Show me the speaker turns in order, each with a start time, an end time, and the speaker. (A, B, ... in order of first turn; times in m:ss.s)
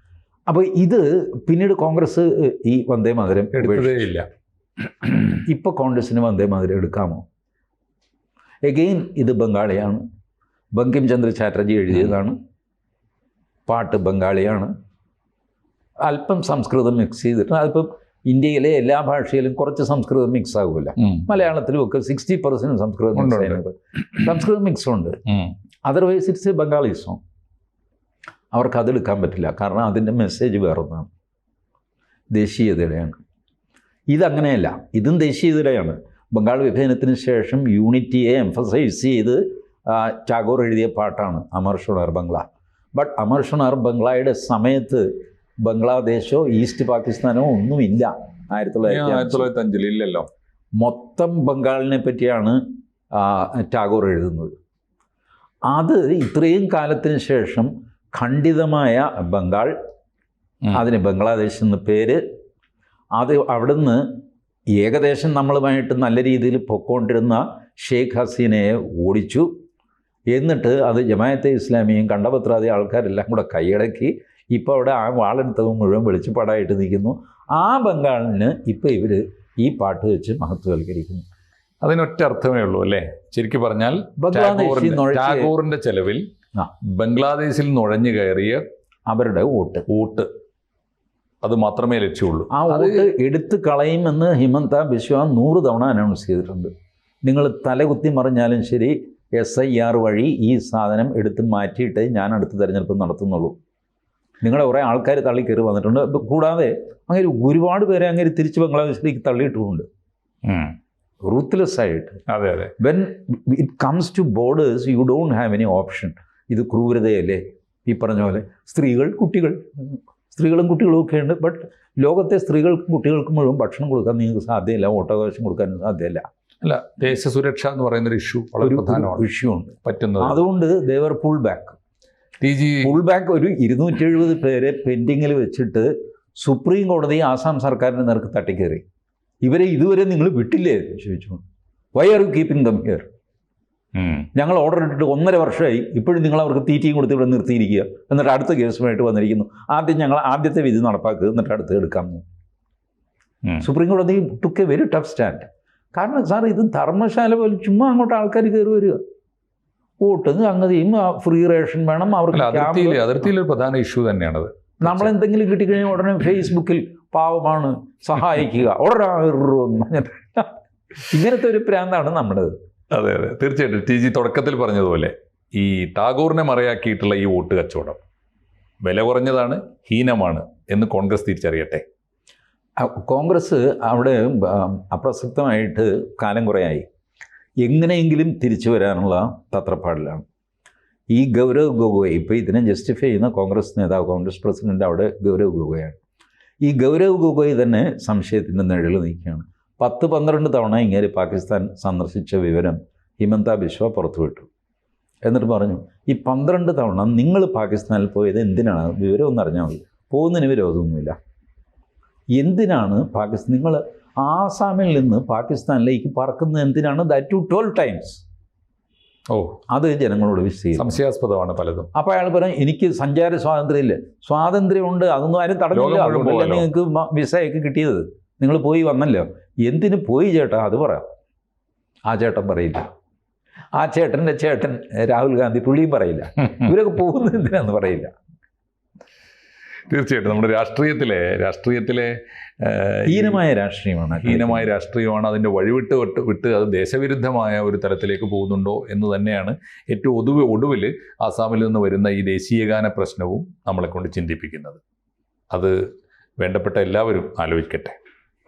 0:00.5-0:04.1 A
0:03.5-0:04.3 B
0:05.3-0:07.2 A
0:08.6-0:10.0 A
0:10.7-0:12.4 A
0:13.7-0:14.7 A
0:16.0-0:25.2 A
0:21.0-0:21.3 B
0:23.2-0:23.6 B
0:25.3-0:25.5 B
0:25.8-0:27.2 A
0:28.5-0:31.1 A
0:32.3-0:33.2 A
0:34.1-0:45.1 A
0:45.6-0:49.5 A
0:48.9-0:50.3 B
0:50.8-0:52.6 A
0:53.1-0:54.5 A
0:55.7-0:59.7 A
1:00.7-1:02.2 A
1:03.2-1:04.0 A
1:04.8-1:09.5 A
1:10.3-1:21.2 A
1:21.8-1:26.2 B
1:24.2-1:25.5 A
1:26.8-1:28.6 B
1:29.1-1:29.9 A
1:29.9-1:30.3 B
1:31.4-1:33.0 B
1:32.5-1:36.7 A
1:37.2-1:43.6 A
1:44.4-1:49.9 A
1:50.4-1:50.8 B
1:51.2-1:52.2 A
1:52.3-1:52.7 B
1:52.8-2:06.2 A
2:06.6-2:09.3 B
2:08.6-2:11.8 A
2:09.8-2:10.4 B
2:12.4-2:12.9 B
2:12.8-2:18.8 A
2:19.4-2:21.4 A
2:22.0-2:23.1 A
2:24.0-2:24.3 B
2:24.4-2:32.2 A
2:33.6-2:39.0 A
2:40.0-2:43.1 A
2:42.3-2:45.1 B
2:44.8-2:50.5 A
2:51.1-2:52.5 A
2:52.9-2:58.0 B
2:58.8-3:01.8 B
3:02.8-3:06.9 A
3:07.6-3:10.2 A
3:11.1-3:16.0 A
3:16.6-3:24.5 A
3:25.2-3:31.2 A
3:32.3-3:38.2 A
3:39.3-3:39.6 B
3:39.7-3:41.0 A
3:40.8-3:41.9 B
3:42.0-3:51.1 A
3:45.7-3:46.7 B
3:52.1-3:52.9 A
3:53.8-3:58.1 A
3:59.9-4:03.4 B
4:03.1-4:04.7 A
4:04.2-4:14.8 B
4:16.4-4:18.0 B